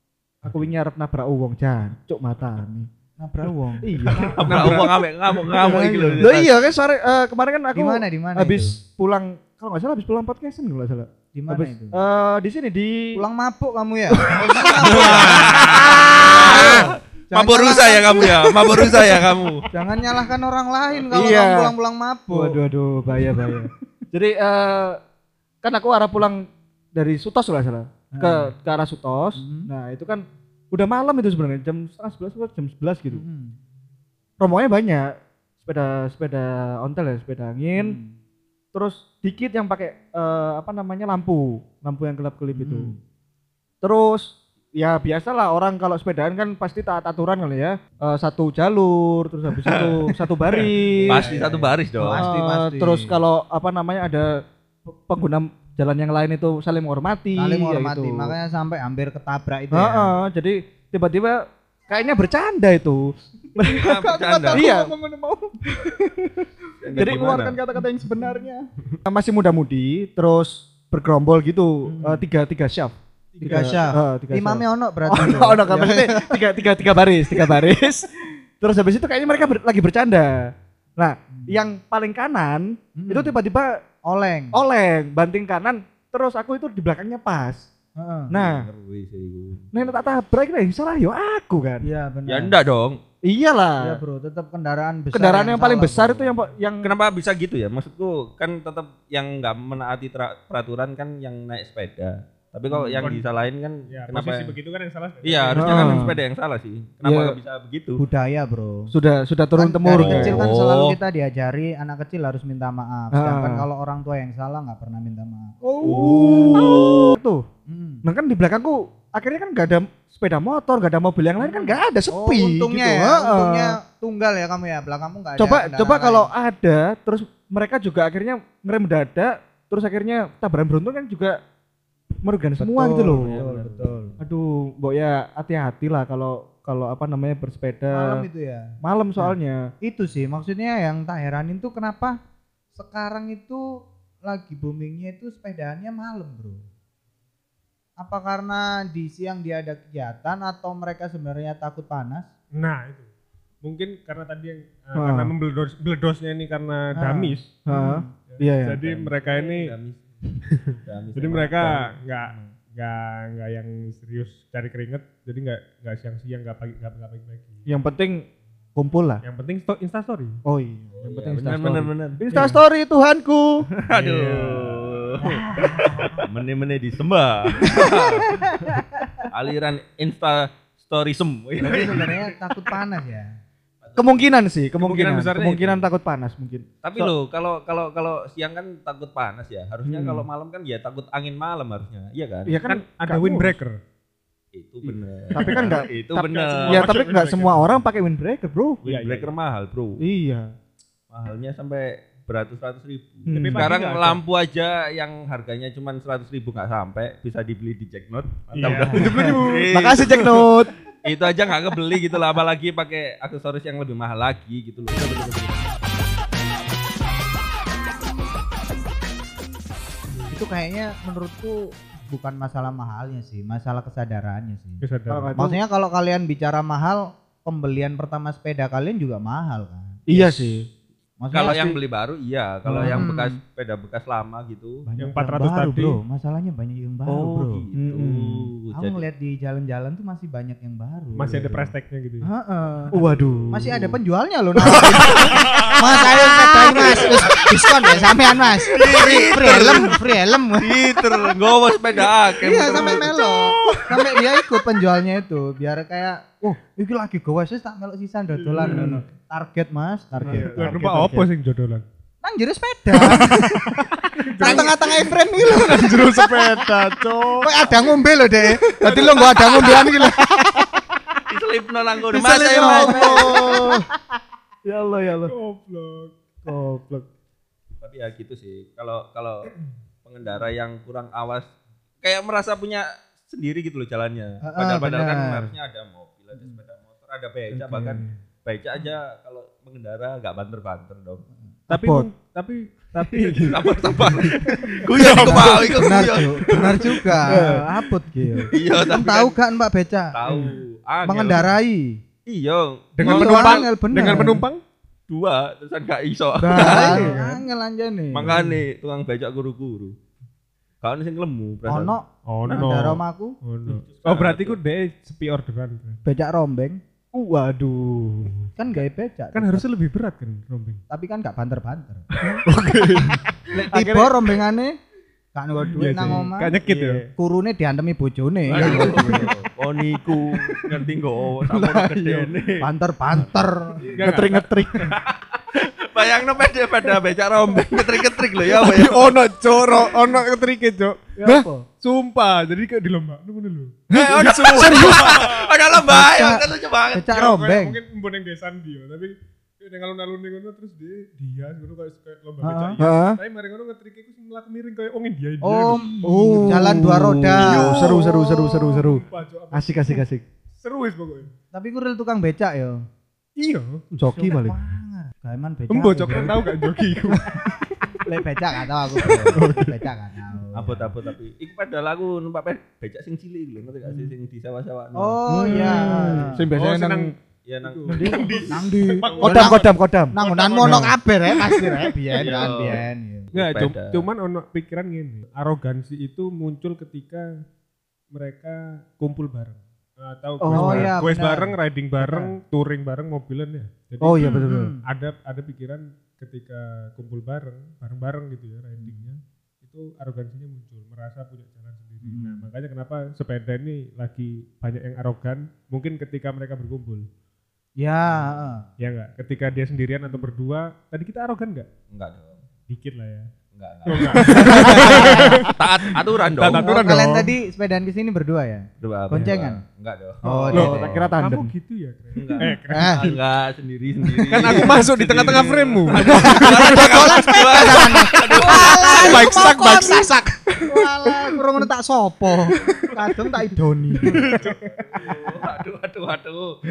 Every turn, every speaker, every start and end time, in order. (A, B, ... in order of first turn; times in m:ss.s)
0:00.4-0:02.9 A
0:03.2-0:04.8 B
0:03.8-0:04.9 A
0:04.4-0:06.5 C
0:04.4-0:04.9 D
0:05.6-0:06.4 B
0:06.2-0:13.2 A
0:07.8-0:08.8 B
0:11.3-0:12.0 B
0:13.2-0:19.2 B
0:14.3-0:19.7 C
0:14.9-0:16.9 A
0:19.7-0:22.6 B
0:21.1-0:21.7 A
0:22.3-0:25.0 A
0:25.6-0:33.2 A
0:28.1-0:28.5 B
0:29.4-0:29.7 B
0:33.1-0:33.6 B
0:34.4-0:38.0 A
0:37.8-0:38.1 B
0:38.7-0:43.0 A
0:42.6-0:43.0 B
0:43.8-0:54.3 A
0:51.0-0:53.2 B
0:51.1-0:52.3 C
0:54.8-0:58.3 A
0:57.4-1:00.1 B
0:59.7-1:04.0 A
1:03.7-1:05.5 B
1:03.8-1:04.7 C
1:04.5-1:05.0 A
1:05.6-1:07.8 A
1:06.8-1:07.6 C
1:07.0-1:08.7 B
1:09.1-1:23.8 A
1:11.9-1:12.2 B
1:13.4-1:16.4 B
1:23.0-1:23.4 B
1:24.1-1:24.6 B
1:24.5-1:27.7 A
1:28.0-1:28.3 B
1:28.3-1:28.7 A
1:28.3-1:29.9 C
1:29.7-1:31.9 A
1:31.8-1:32.6 B
1:32.3-1:33.0 C
1:33.2-1:34.0 A
1:33.8-1:36.3 B
1:35.1-1:36.9 A
1:36.8-1:44.6 C
1:42.7-1:43.0 B
1:43.9-1:46.1 D
1:45.2-1:48.0 C
1:45.6-1:46.2 A
1:47.0-1:47.4 A
1:48.0-1:48.9 B
1:48.9-1:50.5 A
1:49.6-1:56.3 B
1:49.9-1:51.0 C
1:53.1-1:53.6 A
1:55.6-1:57.5 A
1:55.8-1:57.2 C
1:57.7-1:58.0 B
1:58.0-2:03.8 A
2:01.4-2:06.3 B
2:05.4-2:11.4 A
2:12.2-2:18.3 A
2:12.6-2:14.2 B
2:17.9-2:22.2 B
2:18.8-2:19.6 A
2:22.7-2:23.7 B
2:24.2-2:26.7 B
2:28.0-2:32.3 B
2:32.6-2:33.1 D
2:33.6-2:37.5 D
2:35.0-2:35.3 A
2:37.0-2:38.1 B
2:37.7-2:38.8 A
2:38.3-2:39.7 D
2:38.8-2:42.5 C
2:40.4-2:47.6 D
2:47.7-2:48.2 A
2:48.8-2:49.2 A
2:49.2-2:50.4 D
2:50.5-2:52.6 A
2:51.0-2:52.2 C
2:52.3-2:53.6 B
2:53.8-2:55.4 C
2:53.9-2:55.2 D
2:55.2-2:56.3 B
2:56.2-2:58.4 C
2:57.8-2:59.2 B
2:59.3-3:02.2 C
3:01.6-3:03.4 B
3:03.8-3:05.8 C
3:04.0-3:06.7 A
3:04.9-3:05.4 D
3:06.8-3:12.6 C
3:09.8-3:10.3 A
3:12.5-3:13.6 A
3:12.7-3:13.8 D
3:14.5-3:17.0 C
3:15.3-3:18.8 A
3:15.4-3:15.7 D
3:16.5-3:17.8 D
3:18.8-3:20.0 C
3:18.8-3:19.3 D
3:20.0-3:20.5 A
3:21.1-3:30.5 C
3:23.3-3:23.7 A
3:23.3-3:24.2 D
3:28.5-3:29.7 D
3:28.9-3:30.8 A
3:31.0-3:35.3 C
3:34.9-3:35.6 A
3:40.3-3:44.8 B
3:44.8-3:45.3 D
3:45.1-3:45.6 A
3:45.4-3:50.5 B
3:50.1-3:50.7 A
3:51.2-3:51.7 B
3:51.3-3:54.8 C
3:51.5-3:51.8 A
3:52.6-3:53.1 A
3:52.8-3:53.4 B
3:54.8-3:57.6 B
3:55.0-3:56.0 D
3:57.1-3:59.0 C
3:57.8-3:58.5 A
3:58.7-4:01.7 B
4:01.2-4:02.3 D
4:02.2-4:03.0 B
4:02.9-4:04.0 A
4:03.5-4:10.8 B
4:04.6-4:07.1 A
4:05.0-4:05.8 C
4:08.6-4:10.0 C
4:10.6-4:13.4 C
4:12.4-4:20.8 B
4:12.9-4:14.4 A
4:18.4-4:19.0 D
4:18.6-4:19.0 A
4:20.2-4:21.3 A
4:20.3-4:21.8 D
4:22.2-4:23.7 B
4:23.0-4:27.5 D
4:23.1-4:23.6 A
4:24.4-4:24.7 A
4:24.4-4:26.6 B
4:26.0-4:27.8 A
4:27.4-4:30.6 B
4:28.7-4:30.8 A
4:28.8-4:29.3 D
4:31.3-4:33.6 C
4:32.1-4:33.8 B
4:32.2-4:33.9 A
4:34.6-4:35.3 A
4:35.3-4:36.2 D
4:36.5-4:37.1 A
4:37.8-4:39.5 C
4:40.0-4:41.5 C
4:42.0-4:51.2 C
4:44.4-4:45.5 B
4:47.5-4:48.1 A
4:51.7-4:52.1 A
4:51.7-4:56.0 D
4:53.3-4:57.1 C
4:55.2-5:00.2 B
4:57.3-4:58.5 A
4:58.5-4:59.4 C
5:00.1-5:01.5 C
5:01.0-5:02.0 B
5:02.3-5:03.6 C
5:03.0-5:04.6 D
5:03.0-5:04.4 B
5:04.0-5:04.4 A
5:05.1-5:07.1 C
5:06.4-5:08.4 B
5:06.5-5:07.3 A
5:06.7-5:07.3 D
5:08.1-5:10.0 C
5:08.3-5:08.6 D
5:10.8-5:12.0 C
5:11.7-5:13.4 B
5:12.3-5:16.0 D
5:13.7-5:14.6 C
5:16.0-5:16.8 B
5:17.1-5:18.4 A
5:18.6-5:19.7 B
5:19.3-5:20.8 D
5:20.9-5:22.0 B
5:22.2-5:24.4 A
5:22.4-5:23.2 D
5:23.6-5:24.8 B
5:25.4-5:26.6 B
5:25.7-5:27.1 D
5:25.8-5:27.0 A
5:27.2-5:29.2 B
5:28.5-5:32.7 C
5:28.5-5:29.3 D
5:28.6-5:29.2 A
5:31.6-5:32.2 A
5:32.6-5:33.9 B
5:33.9-5:35.0 D
5:34.0-5:35.0 A
5:34.9-5:39.2 C
5:38.4-5:41.1 D
5:41.2-5:41.6 B
5:41.8-5:45.5 D
5:43.9-5:45.4 A
5:43.9-5:47.2 C
5:45.7-5:47.8 B
5:47.1-6:00.0 D
5:52.4-5:52.8 B
5:52.8-5:53.2 A
5:55.4-5:58.3 B
5:56.0-6:00.2 A
6:00.6-6:01.3 D
6:01.5-6:02.8 B
6:03.4-6:04.1 D
6:04.0-6:04.6 A
6:04.1-6:06.6 B
6:05.7-6:07.8 D
6:08.0-6:10.9 B
6:09.2-6:09.7 D
6:09.3-6:09.7 A
6:10.6-6:15.2 C
6:15.0-6:16.4 B
6:15.3-6:17.2 A
6:15.6-6:20.9 D
6:17.5-6:19.2 C
6:17.9-6:18.4 A
6:18.5-6:23.3 B
6:19.2-6:21.9 A
6:22.2-6:24.1 C
6:23.3-6:27.3 D
6:28.1-6:47.1 D
6:30.4-6:30.9 A
6:30.6-6:32.3 B
6:34.0-6:34.7 A
6:34.2-6:34.8 B
6:42.0-6:42.4 B
6:47.8-6:48.6 B
6:48.8-6:51.7 D
6:51.9-6:52.4 C
6:52.7-6:53.3 D
6:53.5-6:56.8 C
6:53.9-6:55.6 D
6:54.0-6:55.5 A
6:54.3-6:55.4 B
6:56.3-6:57.3 D
6:56.6-6:59.6 B
6:58.8-7:01.1 C
7:00.2-7:00.8 B
7:00.5-7:01.5 A
7:00.5-7:03.2 D
7:02.2-7:09.2 C
7:02.7-7:03.0 B
7:04.3-7:07.7 D
7:06.0-7:06.8 A
7:06.1-7:14.4 B
7:08.5-7:10.4 D
7:08.5-7:09.5 A
7:10.6-7:11.4 A
7:12.7-7:13.0 A
7:14.1-7:15.2 D
7:14.2-7:16.6 C